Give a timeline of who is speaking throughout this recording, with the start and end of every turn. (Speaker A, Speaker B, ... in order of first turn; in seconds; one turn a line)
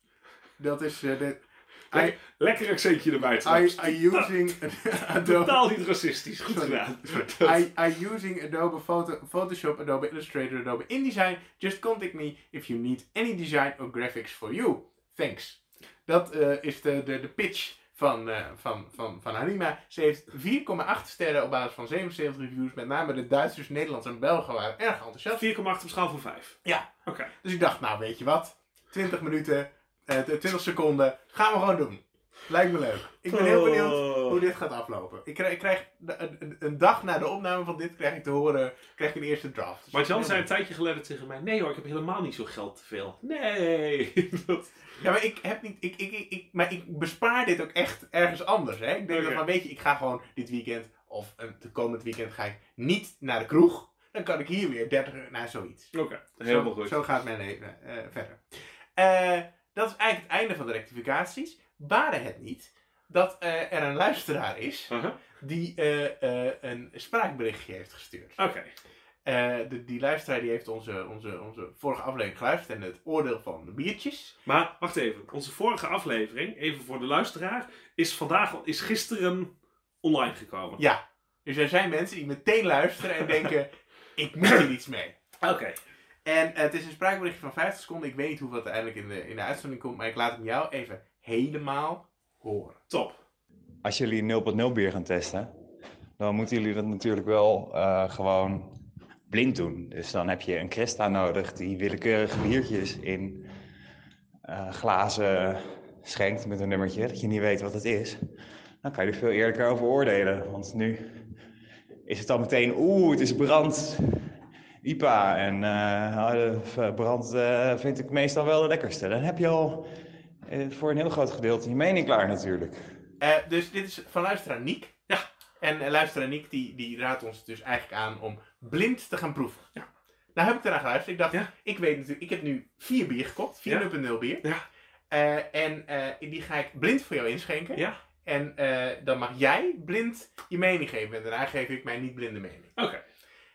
Speaker A: 0.6-2.2
Speaker B: 1.9-4.5
Speaker A: 3.4-5.7
Speaker B: 5.1-7.7
Speaker A: 6.4-25.5
Speaker B: 25.3-27.3
Speaker A: 26.6-26.9
Speaker A: 27.4-40.5
Speaker B: 33.3-34.4
Speaker B: 39.9-44.8
Speaker A: 45.0-55.9
Speaker B: 49.1-49.4
Speaker B: 55.9-57.0
Speaker A: 56.5-68.4
Speaker B: 64.9-65.2
Speaker B: 68.4-68.7
Speaker A: 69.2-74.3
Speaker B: 74.4-79.5
Speaker B: 80.0-80.8
Speaker A: 80.8-85.1
Speaker B: 85.4-85.8
Speaker A: 86.2-92.8
Speaker B: 92.9-93.2
Speaker C: 93.8-95.5
Speaker C: 96.2-98.7
Speaker C: 99.3-103.5
Speaker C: 104.5-108.2
Speaker C: 108.8-111.0
Speaker C: 112.1-114.2
Speaker C: 114.8-119.9
Speaker C: 120.5-122.8
Speaker A: 123.2-124.9
Speaker A: 125.6-129.6
Speaker A: 130.3-134.4
Speaker A: 135.1-142.7
Speaker B: 142.8-143.0